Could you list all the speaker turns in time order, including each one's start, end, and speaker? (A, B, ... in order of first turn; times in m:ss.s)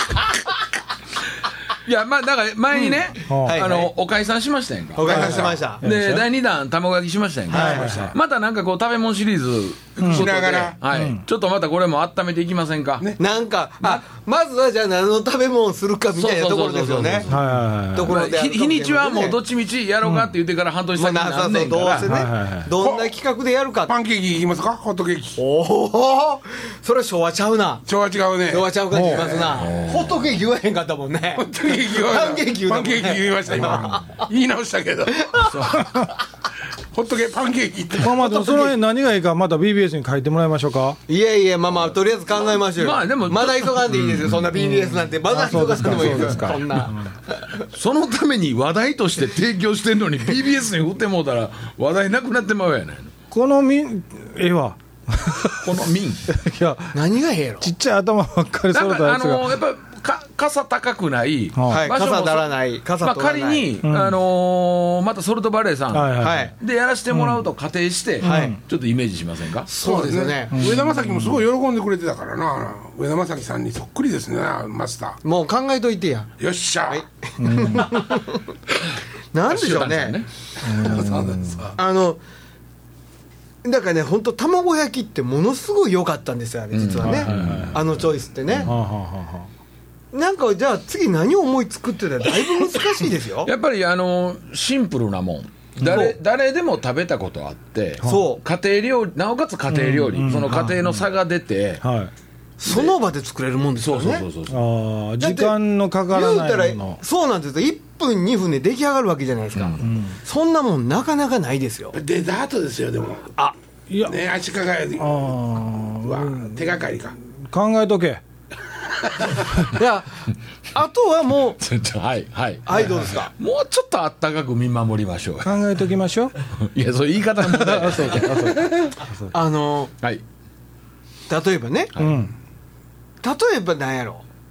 0:01.8-0:13.1 A
0:02.7-0:03.9 B
0:03.3-0:03.6 C
0:04.9-0:05.8 B
0:05.0-0:05.7 D
0:05.1-0:06.2 C
0:07.5-0:08.1 B
0:07.5-0:08.1 C
0:10.0-0:10.3 C
0:10.1-0:10.8 D
0:10.9-0:11.2 C
0:13.2-0:17.3 B
0:16.2-0:22.1 A
0:17.3-0:18.2 C
0:17.9-0:19.4 B
0:20.0-0:20.3 C
0:21.0-0:23.9 B
0:22.0-0:22.7 C
0:22.8-0:23.1 D
0:23.8-0:25.4 D
0:25.4-0:27.8 B
0:27.8-0:29.6 D
0:28.5-0:34.2 B
0:28.9-0:29.4 C
0:29.5-0:30.3 A
0:31.4-0:35.5 D
0:35.2-0:35.6 B
0:35.4-0:35.9 A
0:36.9-0:38.2 D
0:38.0-0:41.0 C
0:38.1-0:38.7 B
0:41.1-0:47.6 B
0:42.4-0:44.5 A
0:44.6-0:47.0 C
0:47.7-0:53.1 A
0:53.3-0:57.0 C
0:55.6-0:56.3 A
0:56.9-0:57.7 B
0:57.6-0:59.5 C
0:58.7-1:09.7 A
1:01.5-1:01.8 C
1:01.7-1:03.7 B
1:03.8-1:04.2 C
1:05.9-1:06.5 C
1:06.2-1:06.5 B
1:07.1-1:07.4 C
1:08.2-1:08.6 C
1:08.2-1:08.6 B
1:09.6-1:10.6 B
1:09.8-1:15.2 D
1:10.5-1:11.4 C
1:15.2-1:16.3 B
1:16.4-1:17.0 D
1:16.9-1:18.5 B
1:17.4-1:17.9 C
1:19.3-1:20.2 B
1:19.5-1:20.3 A
1:20.6-1:21.6 C
1:20.6-1:21.8 D
1:21.7-1:22.2 B
1:23.6-1:28.7 B
1:26.7-1:27.9 A
1:27.0-1:27.8 C
1:28.6-1:29.5 C
1:30.1-1:33.5 B
1:33.4-1:41.8 A
1:35.8-1:36.1 B
1:38.0-1:38.4 B
1:39.7-1:41.0 C
1:41.8-1:42.1 C
1:42.6-1:44.2 B
1:42.7-1:42.9 A
1:43.8-1:44.6 A
1:44.5-1:47.0 C
1:45.2-1:45.6 B
1:46.1-1:52.0 B
1:49.6-1:49.8 A
1:49.8-1:50.2 C
1:51.9-1:53.3 D
1:53.9-1:54.2 C
1:54.0-1:55.3 D
1:55.0-1:56.7 C
1:56.0-1:57.2 D
1:57.4-1:58.2 C
1:59.6-2:01.6 B
2:01.6-2:05.5 A
2:02.6-2:03.3 B
2:05.4-2:06.3 C
2:06.6-2:08.9 A
2:07.4-2:09.2 C
2:09.3-2:09.9 B
2:11.3-2:11.9 B
2:11.9-2:12.2 A
2:12.0-2:12.3 C
2:13.2-2:14.2 B